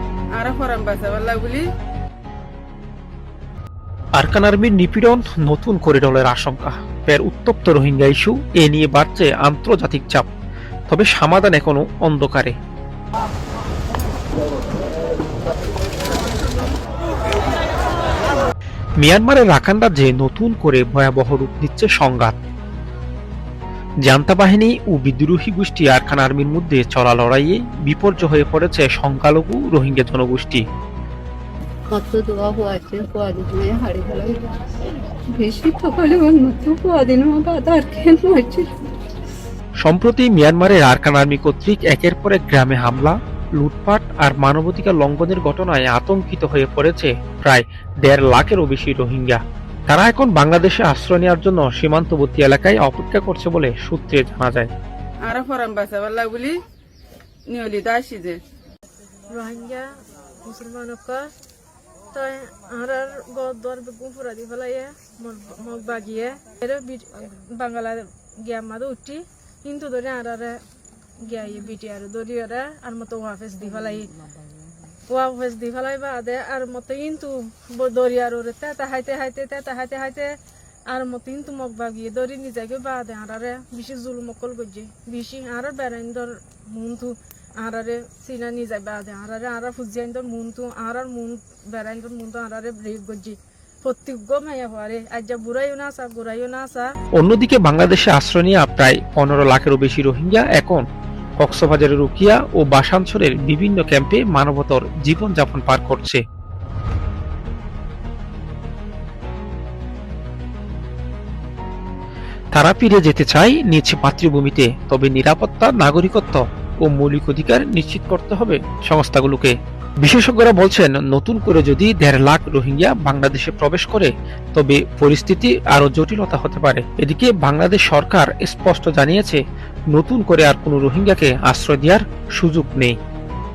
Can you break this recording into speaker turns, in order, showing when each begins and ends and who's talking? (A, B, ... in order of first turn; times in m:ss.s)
0:00.3-0:01.7 A
0:04.2-0:10.3 B
0:10.9-0:12.5 B
0:19.0-0:22.4 B
0:24.0-0:30.6 B
0:31.9-0:34.4 C
0:35.3-0:38.7 C
0:39.8-0:54.7 B
0:55.2-0:56.6 A
0:57.5-0:58.4 A
0:59.3-0:59.9 D
1:00.4-1:01.3 D
1:02.1-1:10.6 D
1:11.2-1:14.2 D
1:15.1-1:20.4 D
1:20.9-1:36.9 D
1:37.2-1:40.8 B
1:41.4-1:46.2 B
1:52.5-2:09.4 B
2:09.9-2:13.0 B